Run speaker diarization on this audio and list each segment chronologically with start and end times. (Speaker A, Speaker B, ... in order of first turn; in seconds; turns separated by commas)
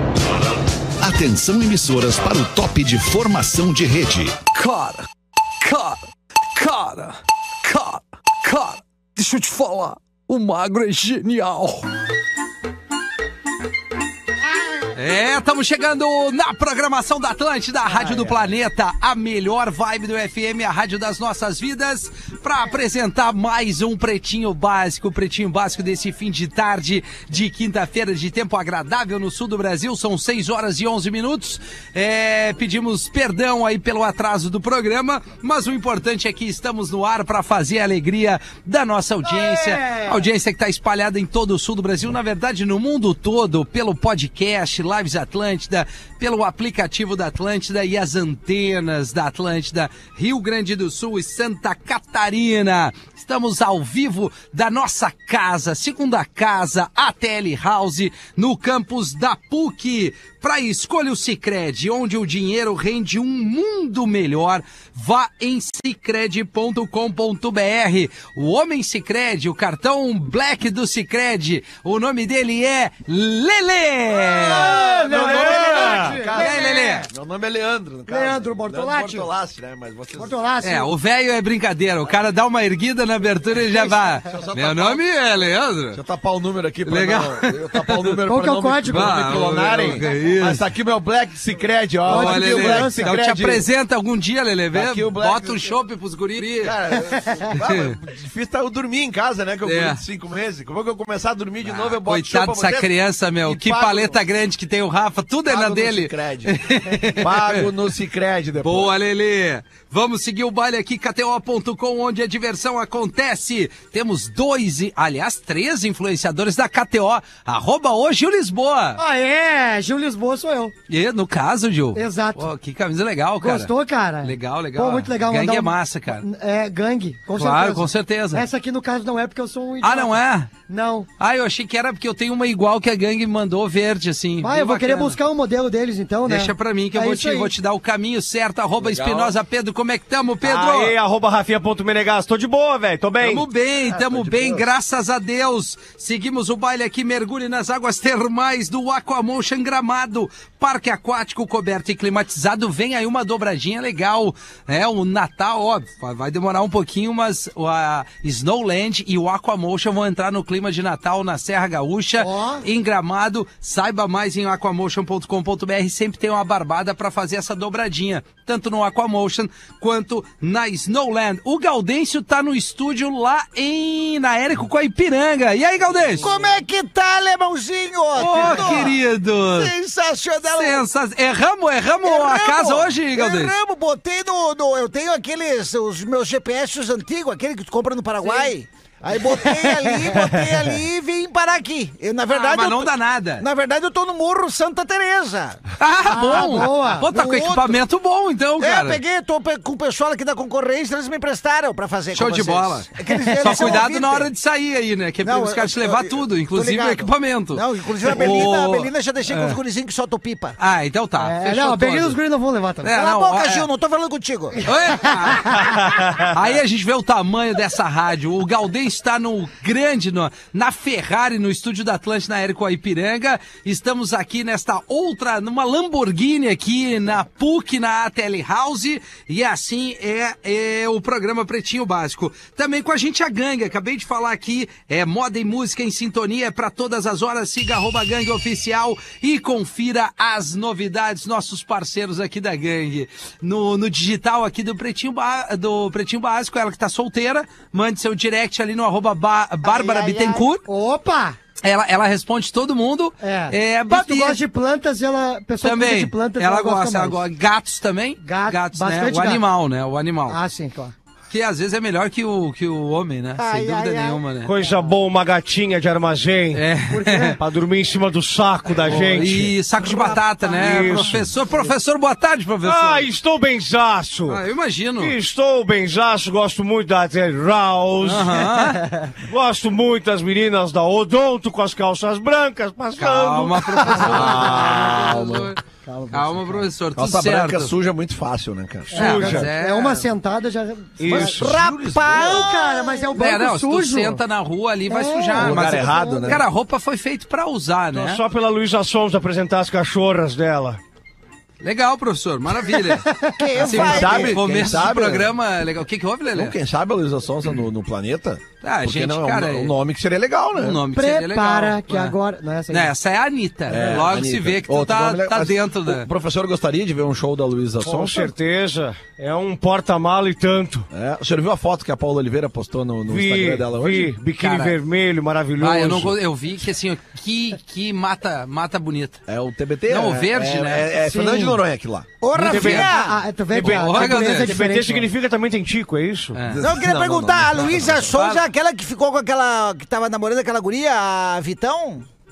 Speaker A: 1.0-4.4, Speaker B: 4.5-5.1, Speaker B: 5.6-11.9, Speaker B: 14.9-74.8, Speaker C: 39.2-40.2, Speaker D: 74.4-80.3, Speaker C: 74.4-77.1, Speaker E: 74.5-76.2, Speaker B: 76.3-77.1, Speaker C: 78.1-79.3, Speaker C: 80.2-80.9, Speaker B: 80.6-86.0, Speaker D: 83.7-85.0, Speaker D: 85.9-93.7, Speaker B: 86.8-88.2, Speaker C: 88.3-89.1, Speaker B: 88.9-90.7, Speaker C: 92.1-93.2, Speaker B: 92.1-96.8, Speaker D: 94.7-95.7, Speaker D: 96.6-102.9, Speaker B: 97.5-98.0, Speaker B: 99.7-100.0, Speaker B: 101.7-107.7, Speaker D: 103.4-104.2, Speaker D: 105.5-106.5, Speaker D: 107.2-108.9, Speaker B: 108.6-119.0, Speaker C: 119.0-120.7, Speaker B: 120.9-123.7, Speaker C: 121.9-122.5, Speaker C: 123.4-130.1, Speaker B: 124.2-126.2, Speaker B: 127.3-128.4, Speaker B: 129.8-130.5, Speaker C: 130.7-131.1, Speaker B: 131.2-135.2, Speaker C: 134.4-137.5, Speaker B: 136.3-140.9, Speaker D: 138.8-139.3, Speaker E: 140.4-143.4, Speaker B: 143.2-176.3, Speaker D: 143.9-144.6, Speaker C: 162.2-162.6, Speaker F: 176.2-180.8, Speaker B: 178.1-179.7, Speaker B: 180.4-183.5, Speaker F: 182.0-195.6, Speaker C: 189.5-190.2, Speaker B: 192.3-193.4, Speaker B: 195.8-199.0, Speaker C: 196.1-197.1, Speaker F: 196.2-197.8, Speaker F: 198.6-204.3, Speaker B: 202.1-209.6, Speaker C: 203.2-203.8, Speaker F: 205.2-210.6, Speaker B: 210.6-212.2, Speaker C: 211.2-212.9, Speaker B: 212.8-213.7, Speaker F: 212.9-214.7, Speaker B: 214.6-250.6, Speaker E: 215.8-216.3, Speaker F: 249.6-250.5, Speaker C: 250.7-251.4, Speaker B: 251.6-254.4, Speaker C: 253.2-257.2, Speaker B: 255.6-260.4, Speaker C: 258.2-259.4, Speaker C: 260.3-260.9, Speaker B: 261.3-264.5, Speaker F: 263.4-264.2, Speaker E: 264.4-266.6, Speaker B: 266.5-267.4, Speaker C: 266.9-267.4, Speaker E: 267.4-269.6, Speaker B: 268.8-273.0, Speaker F: 269.8-271.2, Speaker E: 270.5-271.2, Speaker E: 272.6-274.4, Speaker B: 274.3-275.1, Speaker E: 275.0-284.6, Speaker B: 278.0-278.9, Speaker B: 282.9-285.6, Speaker D: 283.9-285.5, Speaker C: 284.4-284.9, Speaker C: 285.8-286.6, Speaker B: 286.1-287.7, Speaker D: 286.9-288.9, Speaker E: 288.9-289.5, Speaker C: 288.9-291.3, Speaker B: 288.9-290.1, Speaker E: 291.0-291.5, Speaker D: 291.0-292.6, Speaker F: 291.3-293.1, Speaker C: 292.1-294.2, Speaker B: 293.1-298.2, Speaker C: 294.9-296.4, Speaker D: 295.4-296.4, Speaker E: 297.9-300.8, Speaker B: 301.6-306.6, Speaker C: 302.8-303.4, Speaker F: 303.4-304.4, Speaker D: 303.8-305.3, Speaker D: 306.3-310.8, Speaker B: 308.6-309.7, Speaker B: 310.5-312.2, Speaker C: 310.9-312.9, Speaker B: 312.7-316.1, Speaker D: 313.7-318.3, Speaker E: 317.8-320.9, Speaker D: 320.9-324.1, Speaker E: 323.1-326.1, Speaker B: 324.4-324.8, Speaker B: 325.6-329.2, Speaker D: 329.3-332.1, Speaker B: 329.9-330.9, Speaker C: 331.0-331.6, Speaker F: 332.2-333.2, Speaker B: 332.3-332.9, Speaker E: 332.5-332.8, Speaker C: 332.7-335.1, Speaker B: 333.5-334.5, Speaker E: 333.6-336.4, Speaker B: 336.3-336.6, Speaker D: 336.5-338.1, Speaker F: 336.6-342.1, Speaker B: 338.1-338.4